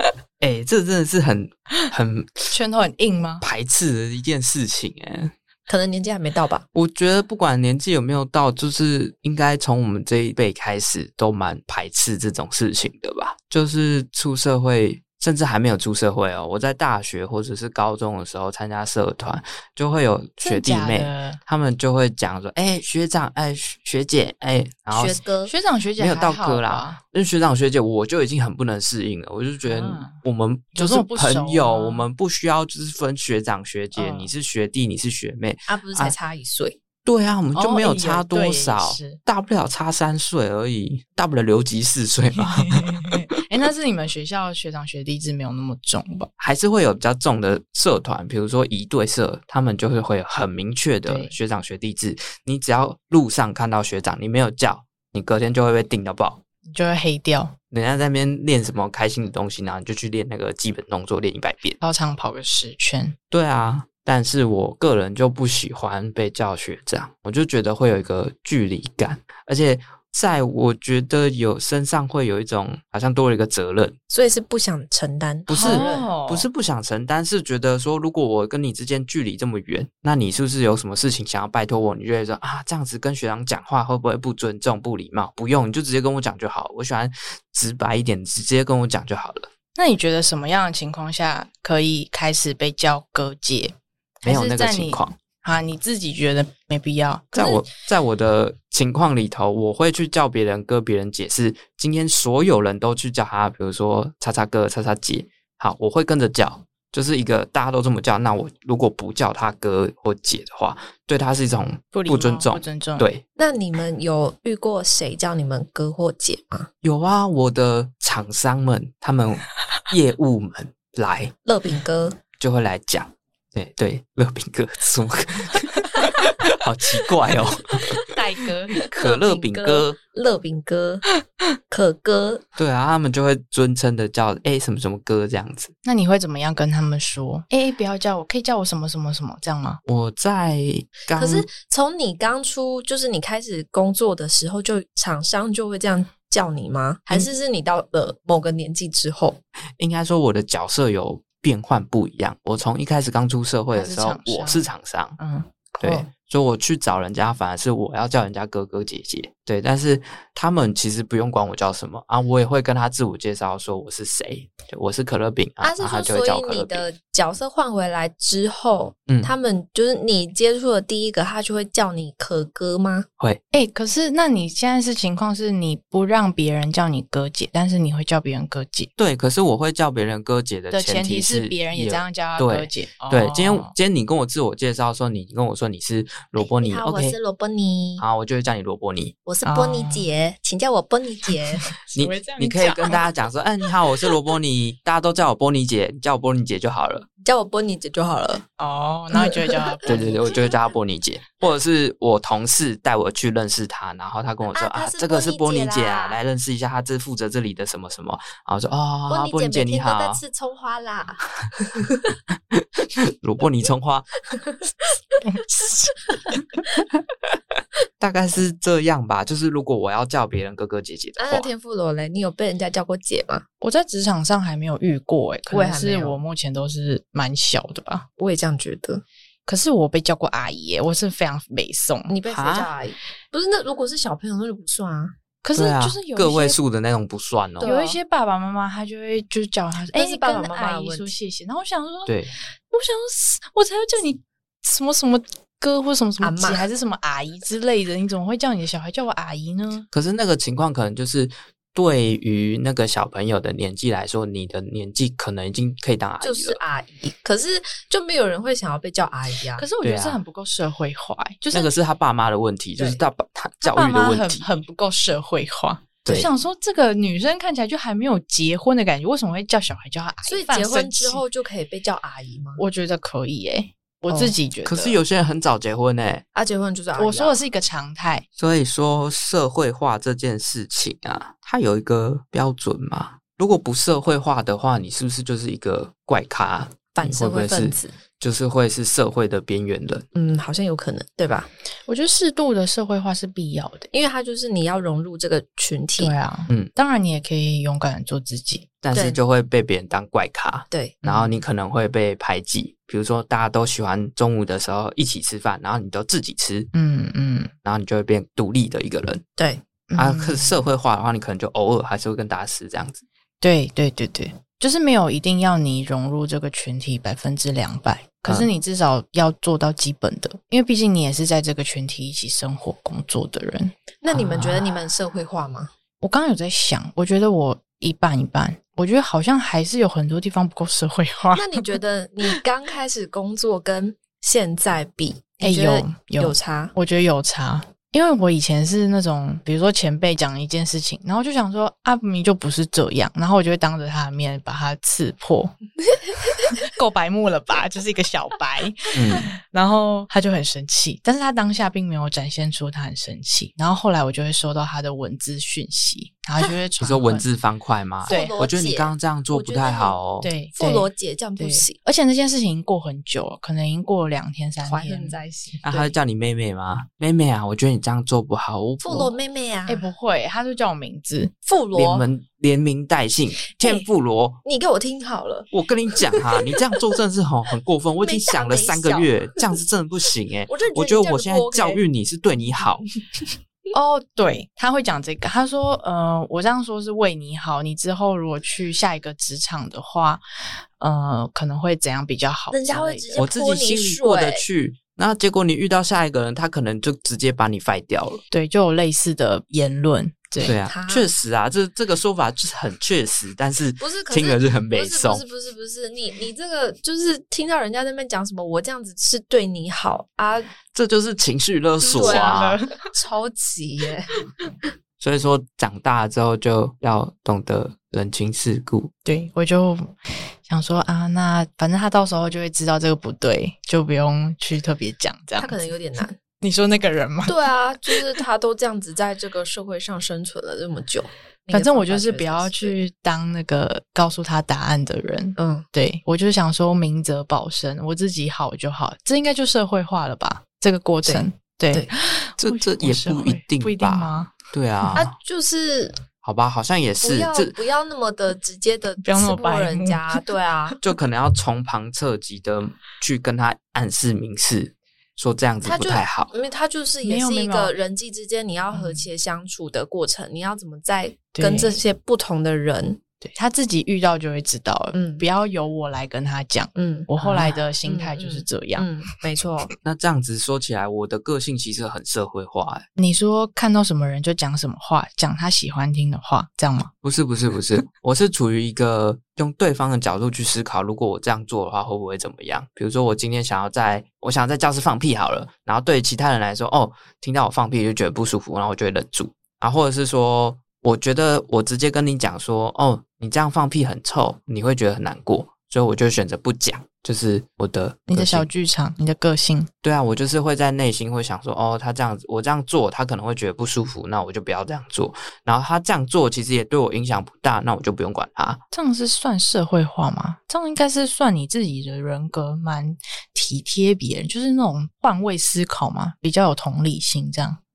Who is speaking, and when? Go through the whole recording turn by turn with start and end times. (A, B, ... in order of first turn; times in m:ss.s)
0:00.4-0:02.5 A
0:02.5-0:03.4 B
0:03.4-0:05.3 A
0:05.7-0:06.6 C
0:06.7-0:25.2 A
0:20.4-0:21.4 B
0:24.9-0:25.5 C
0:25.4-0:27.0 B
0:26.0-0:36.1 A
0:29.6-0:30.2 B
0:30.7-0:32.0 B
0:33.9-0:34.3 B
0:35.7-0:36.8 C
0:37.0-0:43.3 A
0:37.5-0:39.2 B
0:42.3-0:46.3 B
0:46.4-0:56.4 A
0:51.0-0:51.3 B
0:56.7-0:57.5 B
0:57.7-1:01.8 A
1:01.8-1:03.2 B
1:03.3-1:14.0 A
1:14.1-1:16.1 C
1:15.5-1:29.5 A
1:15.5-1:16.5 B
1:29.7-1:37.6 B
1:34.2-1:35.2 A
1:37.3-1:53.2 A
1:51.9-1:53.1 B
1:53.4-1:56.7 C
1:56.8-2:01.3 A
2:01.4-2:02.2 C
2:02.4-2:08.0 A
2:08.0-2:08.8 B
2:08.9-2:10.0 A
2:08.9-2:11.1 C
2:11.7-2:12.4 C
2:12.6-2:15.7 A
2:15.8-2:19.8 B
2:19.8-2:21.5 A
2:21.1-2:29.4 C
2:29.8-2:35.2 A
2:33.7-2:34.7 B
2:35.2-2:35.5 B
2:35.8-2:46.9 A
2:35.8-2:36.1 C
2:45.6-2:53.1 C
2:53.5-2:58.9 B
2:59.0-3:07.2 A
3:00.7-3:03.7 B
3:06.4-3:08.0 C
3:08.0-3:09.1 A
3:09.2-3:11.8 C
3:09.4-3:10.1 B
3:11.8-3:13.0 B
3:11.9-3:17.1 A
3:17.2-3:18.4 C
3:18.6-3:20.3 B
3:19.1-3:20.5 C
3:19.8-3:30.2 A
3:24.5-3:26.2 C
3:29.1-3:31.9 C
3:32.5-3:34.1 A
3:34.3-3:36.2 C
3:35.2-3:35.9 B
3:38.0-3:41.5 A
3:41.2-3:43.4 C
3:43.6-3:48.0 B
3:45.5-3:46.2 C
3:48.2-3:49.0 C
3:49.5-3:52.2 B
3:52.1-3:55.1 C
3:52.2-3:52.7 A
3:55.4-3:56.6 B
3:55.5-3:57.7 A
3:57.6-3:58.0 C
3:57.6-4:09.9 B
3:59.9-4:01.1 C
4:02.0-4:02.3 A
4:06.2-4:06.7 C
4:09.9-4:16.6 A
4:16.2-4:19.7 C
4:19.6-4:21.7 B
4:19.8-4:20.2 A
4:21.5-4:24.5 A
4:23.6-4:31.2 B
4:30.2-4:32.6 C
4:32.6-4:35.0 B
4:34.6-4:36.2 A
4:36.3-4:37.4 C
4:36.9-4:38.2 B
4:38.4-4:50.0 A
4:46.9-4:47.9 C
4:50.1-4:51.5 C
4:51.9-4:53.9 B
4:53.9-4:56.1 C
4:56.0-4:58.7 B
4:58.8-5:06.7 A
5:00.7-5:01.0 C
5:01.0-5:01.4 B
5:06.7-5:07.5 B
5:07.6-5:09.2 A
5:09.4-5:09.6 C
5:09.9-5:10.6 B
5:10.0-5:13.0 A
5:13.4-5:23.7 B
5:24.0-5:25.7 C
5:26.0-5:31.7 B
5:31.3-5:36.7 C
5:35.4-5:45.5 B
5:46.2-5:57.2 B
5:48.9-5:49.3 A
5:56.8-6:00.3 A
5:58.0-6:00.0 C
5:58.1-5:58.4 B
6:00.2-6:05.2 B
6:00.5-6:01.8 C
6:04.6-6:05.9 C
6:05.6-6:09.1 A
6:08.8-6:09.9 C
6:09.7-6:11.3 B
6:11.4-6:12.0 C
6:11.7-6:14.4 A
6:13.6-6:13.8 C
6:14.4-6:16.6 C
6:15.5-6:22.8 A
6:18.0-6:19.5 C
6:20.5-6:21.8 C
6:23.7-6:33.2 B
6:32.5-6:34.4 C
6:33.2-6:38.2 A
6:38.3-6:40.6 B
6:40.4-6:45.2 A
6:40.5-6:41.1 C
6:43.8-6:50.5 C
6:50.7-6:52.6 A
6:51.8-6:52.9 B
6:51.9-6:54.2 C
6:55.0-6:58.9 A
6:59.0-7:05.6 B
7:05.4-7:06.2 C
7:06.4-7:07.4 B
7:07.2-7:12.7 C
7:07.9-7:08.2 B
7:11.5-7:25.0 B
7:15.4-7:15.6 C
7:21.0-7:21.9 C
7:22.4-7:25.1 A
7:25.0-7:26.0 C
7:26.2-7:27.6 A
7:27.0-7:30.8 C
7:29.0-7:30.2 B
7:30.8-7:36.3 A
7:35.6-7:43.0 C
7:37.0-7:37.7 B
7:38.7-7:39.1 B
7:41.3-7:41.8 B
7:43.2-7:48.9 B
7:44.9-7:45.2 C
7:46.8-7:49.7 C
7:49.8-7:52.8 A
7:53.0-7:56.9 B
7:57.0-8:18.5 A
8:18.1-8:19.7 B
8:19.8-8:28.6 A
8:28.7-8:37.6 B